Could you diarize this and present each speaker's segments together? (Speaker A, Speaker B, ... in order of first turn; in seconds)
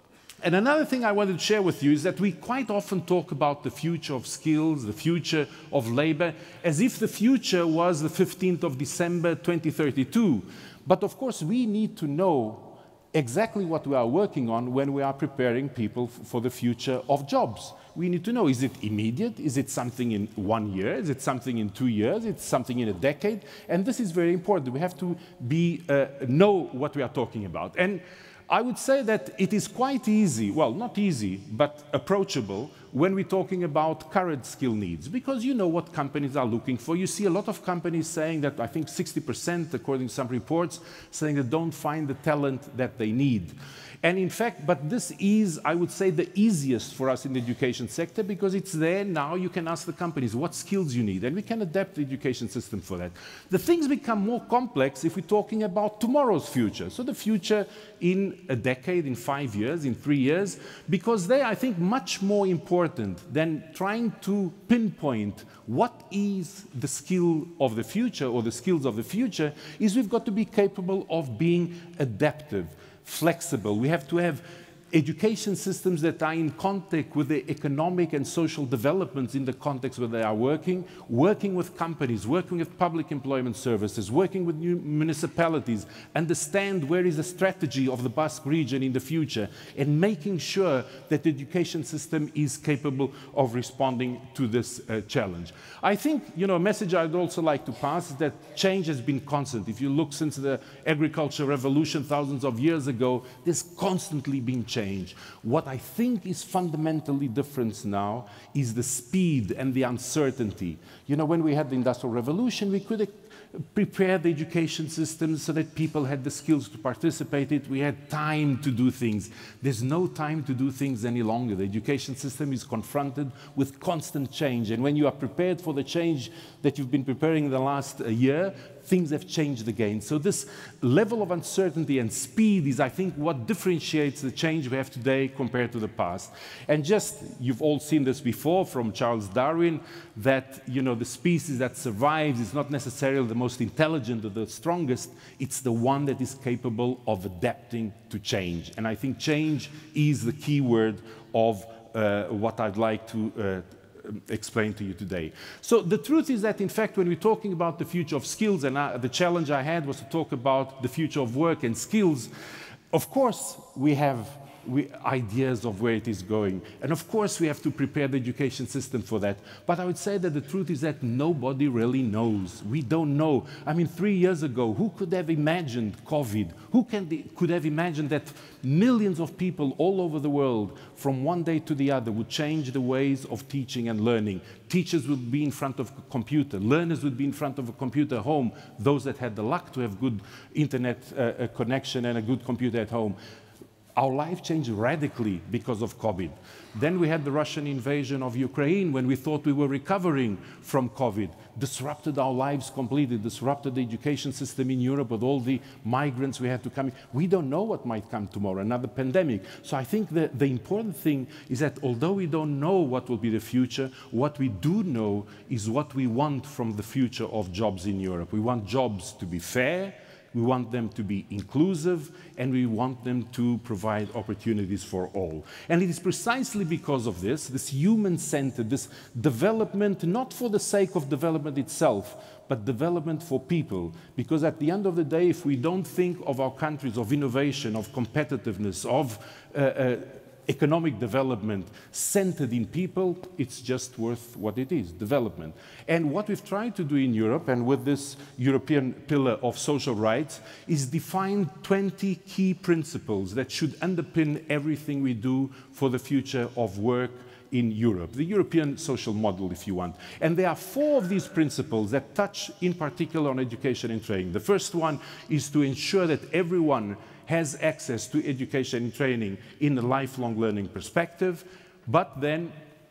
Speaker A: 0.4-162.3, 162.9-193.2, 193.9-272.5